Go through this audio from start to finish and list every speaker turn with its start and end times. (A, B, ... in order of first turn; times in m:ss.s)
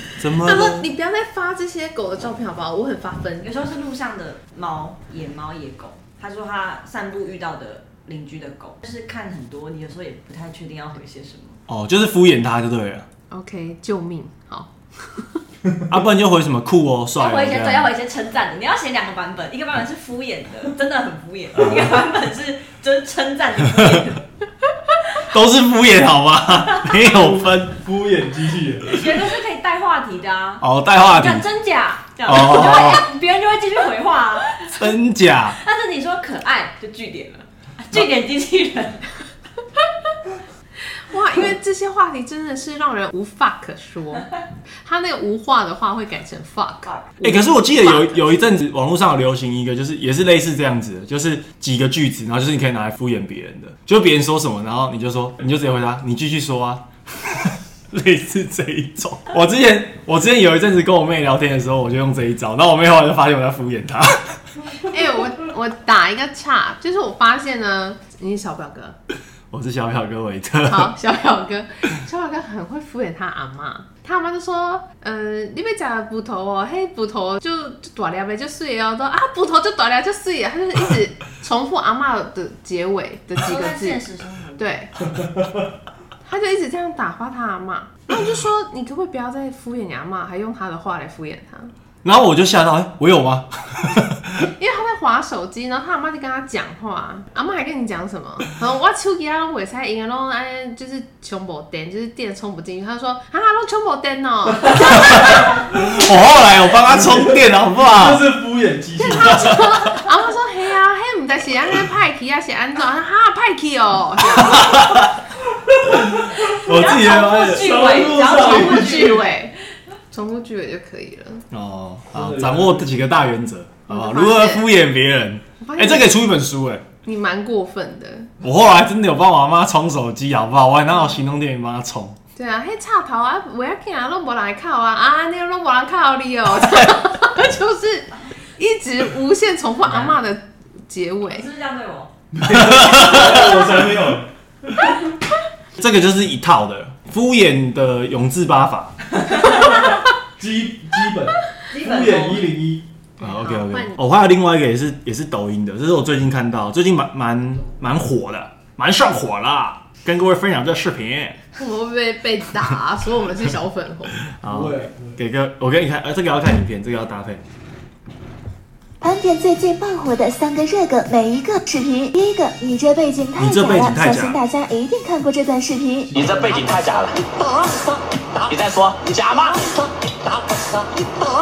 0:00.2-0:00.9 A
0:00.4-0:03.5 B
0:03.4-0:11.6 C
0:11.7-0:13.1 A
0:13.3-0:15.4 B
0:15.9-0:17.9 A
0:17.2-0:24.3 C
0:25.3-0:27.8 A
0:27.2-0:29.1 D
0:28.9-0:34.8 C
0:30.6-0:31.5 A
0:32.2-0:33.1 A
0:34.8-0:35.6 A
0:35.6-0:39.1 C
0:41.1-0:44.3 B
0:44.8-0:48.3 B
0:46.9-0:47.1 C
0:47.2-1:04.4 A
1:04.9-1:09.0 B
1:09.5-1:10.9 A
1:10.7-1:24.0 B
1:23.4-1:24.8 C
1:24.6-1:24.9 B
1:26.2-1:31.7 B
1:32.0-1:34.5 A
1:34.6-1:45.4 B
1:44.6-1:44.9 D
1:45.1-1:48.3 A
1:46.9-1:49.6 D
1:49.2-1:54.8 B
1:49.3-1:49.6 A
1:54.4-1:55.2 A
1:55.7-1:59.2 D
1:56.4-1:58.0 A
1:56.5-1:59.4 C
1:58.1-1:59.6 B
2:00.1-2:01.4 B
2:01.5-2:06.8 A
2:02.1-2:02.9 D
2:03.9-2:04.7 B
2:05.6-2:06.2 B
2:07.0-2:08.3 B
2:08.4-2:12.2 A
2:12.4-2:21.5 B
2:21.3-2:22.1 C
2:22.3-2:24.9 D
2:25.8-2:29.0 A
2:29.5-2:32.9 D
2:31.7-2:32.5 C
2:33.2-2:34.0 B
2:33.2-2:41.4 A
2:41.6-2:44.2 B
2:44.4-2:47.4 A
2:44.5-2:45.2 D
2:49.0-2:56.1 E
2:53.4-2:54.4 A
2:56.1-2:56.6 D
2:56.1-2:57.2 F
2:58.5-2:59.7 F